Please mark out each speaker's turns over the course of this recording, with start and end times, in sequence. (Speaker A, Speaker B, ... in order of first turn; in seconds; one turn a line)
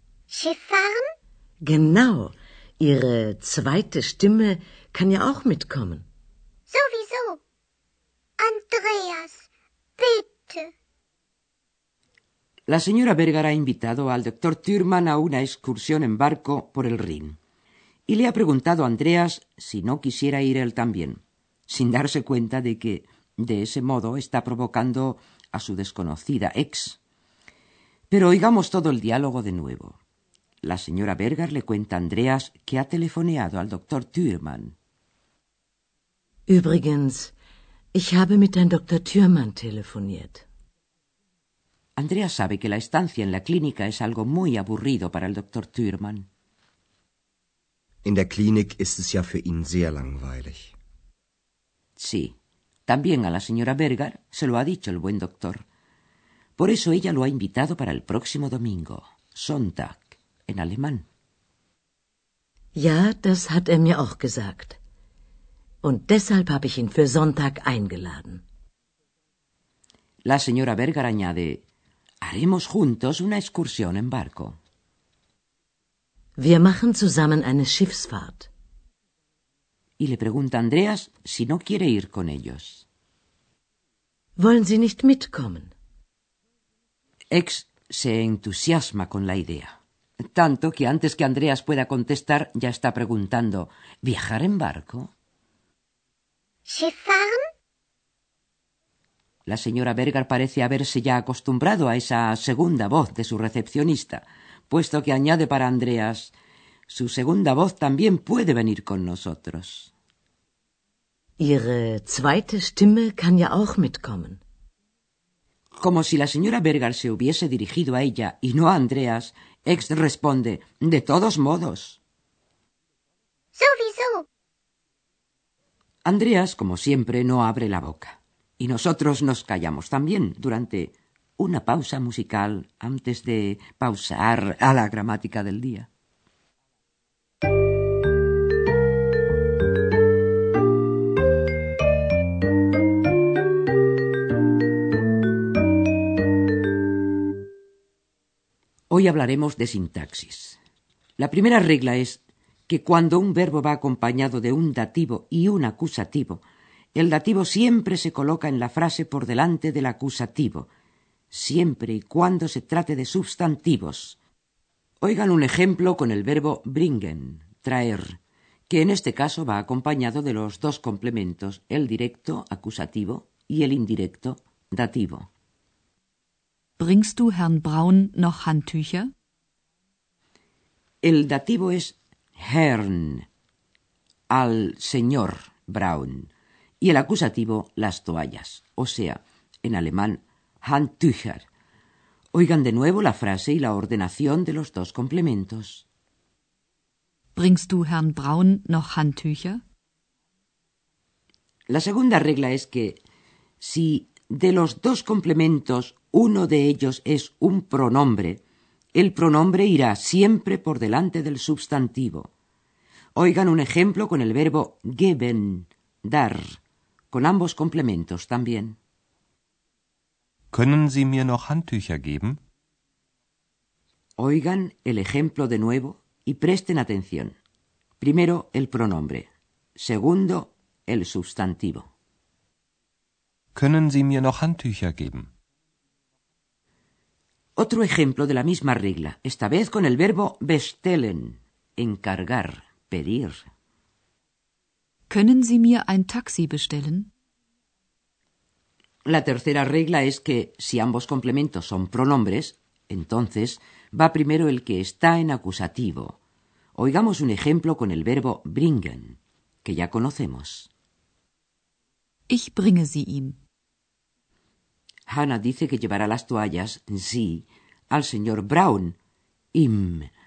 Speaker A: 0.3-1.1
Speaker B: 1.6-6.0
Speaker A: 6.7-7.4
Speaker A: 8.4-9.4
Speaker A: 10.0-10.7
Speaker C: 12.7-17.4
Speaker C: 18.1-27.0
Speaker C: 28.1-30.0
Speaker C: 30.6-34.7
Speaker B: 36.5-37.3
Speaker B: 37.9-40.5
Speaker C: 42.0-46.3
Speaker D: 48.0-50.7
Speaker C: 52.0-52.3
Speaker C: 52.9-55.6
Speaker C: 56.6-61.0
Speaker B: 62.8-64.8
Speaker B: 65.8-68.4
Speaker C: 70.2-71.6
Speaker C: 72.2-74.6
Speaker B: 76.4-78.5
Speaker C: 80.0-82.8
Speaker B: 84.4-85.7
Speaker C: 87.3-95.1
Speaker A: 96.7-97.4
Speaker C: 99.5-106.3
Speaker C: 106.9-109.9
Speaker B: 111.4-114.4
Speaker C: 115.8-122.0
Speaker A: 123.5-124.2
Speaker C: 126.0-135.9
Speaker C: 148.9-150.6
Speaker C: 151.2-156.4
Speaker C: 156.9-160.7
Speaker C: 161.3-164.2
Speaker C: 165.0-168.2
Speaker C: 168.7-175.3
Speaker E: 176.8-179.1
Speaker C: 181.0-183.2
Speaker C: 184.3-186.3
Speaker C: 186.8-191.4
Speaker C: 192.3-195.8
Speaker E: 197.3-199.6
Speaker C: 201.7-203.0
Speaker C: 203.6-208.4
Speaker C: 208.9-212.3
Speaker C: 213.2-216.6
Speaker C: 217.1-218.8
Speaker F: 220.5-222.4
Speaker C: 224.2-227.3
Speaker C: 228.0-231.9
Speaker F: 233.5-235.3
Speaker C: 237.6-243.5
Speaker E: 245.1-247.1
Speaker C: 249.1-256.2
Speaker C: 256.8-260.7
Speaker E: 262.3-263.4
Speaker C: 265.1-268.9
Speaker C: 269.5-270.1